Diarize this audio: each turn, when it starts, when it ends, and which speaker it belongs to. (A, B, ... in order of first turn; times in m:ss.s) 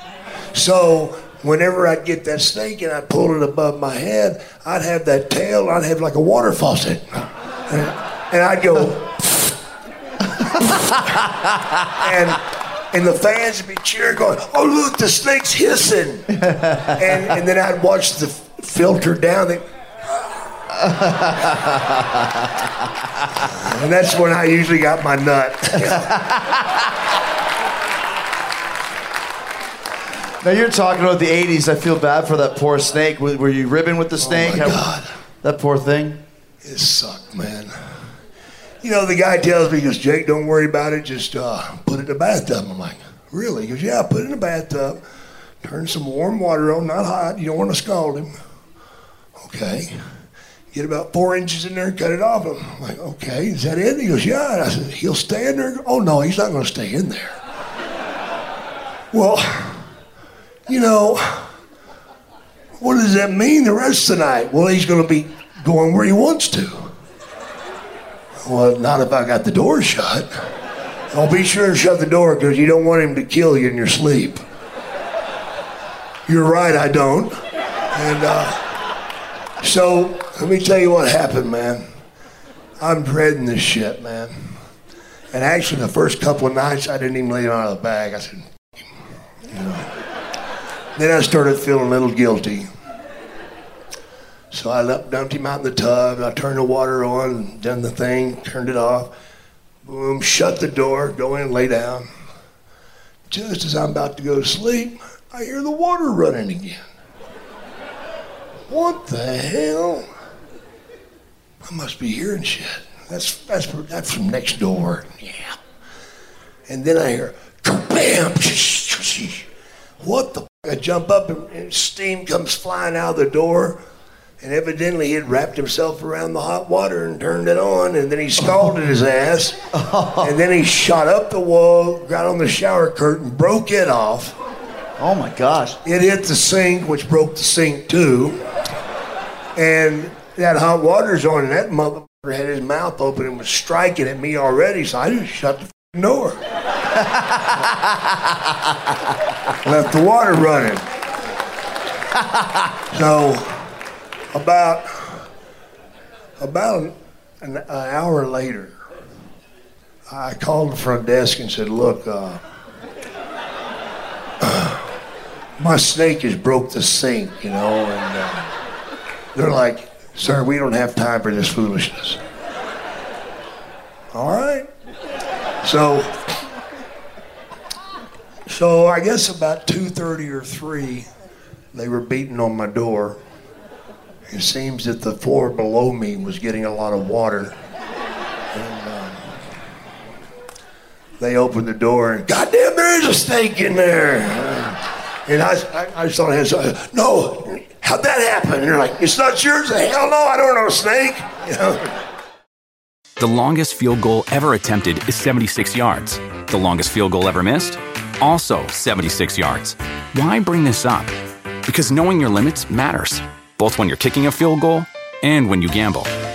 0:00.5-0:09.6 A
0:10.4-0:11.0 A
0:12.0-0:19.6 A
0:16.5-0:16.9 B
0:20.8-0:22.5 B
0:23.5-0:26.1 A
0:26.0-0:26.6 B
0:30.4-0:34.8 B
0:34.2-0:35.1 A
0:35.4-0:36.2 B
0:36.6-0:37.7 A
0:38.8-0:45.0 A
0:45.6-0:48.3 A
0:49.4-0:50.0 A
0:50.7-0:57.4 A
0:59.1-0:59.9 A
1:00.7-1:01.5 A
1:02.8-1:06.9 A
1:08.4-1:10.4 A
1:11.1-1:14.4 A
1:16.3-1:17.4 A
1:17.9-1:18.6 A
1:19.6-1:21.8 A
1:22.8-1:24.5 A
1:25.3-1:28.8 A
1:29.5-1:29.9 A
1:31.0-1:32.7 A
1:34.5-1:39.1 A
1:39.8-1:42.1 A
1:43.3-1:46.8 A
1:48.7-1:50.1 A
1:51.6-1:55.6 A
1:56.7-1:59.5 A
2:00.0-2:03.8 A
2:04.4-2:09.6 A
2:09.7-2:10.3 B
2:10.2-2:14.4 A
2:15.0-2:15.8 B
2:15.8-2:18.4 A
2:19.6-2:26.4 A
2:29.6-2:30.8 A
2:32.9-2:33.6 A
2:34.3-2:35.2 A
2:36.4-2:38.7 A
2:40.1-2:42.4 A
2:44.4-2:44.9 A
2:45.6-2:48.5 A
2:49.4-2:52.2 A
2:54.1-2:54.7 A
2:55.6-2:56.1 A
2:58.5-3:01.1 A
3:01.7-3:03.2 A
3:04.3-3:07.6 A
3:08.5-3:09.3 A
3:11.2-3:22.0 A
3:23.2-3:31.2 C
3:31.7-3:36.1 C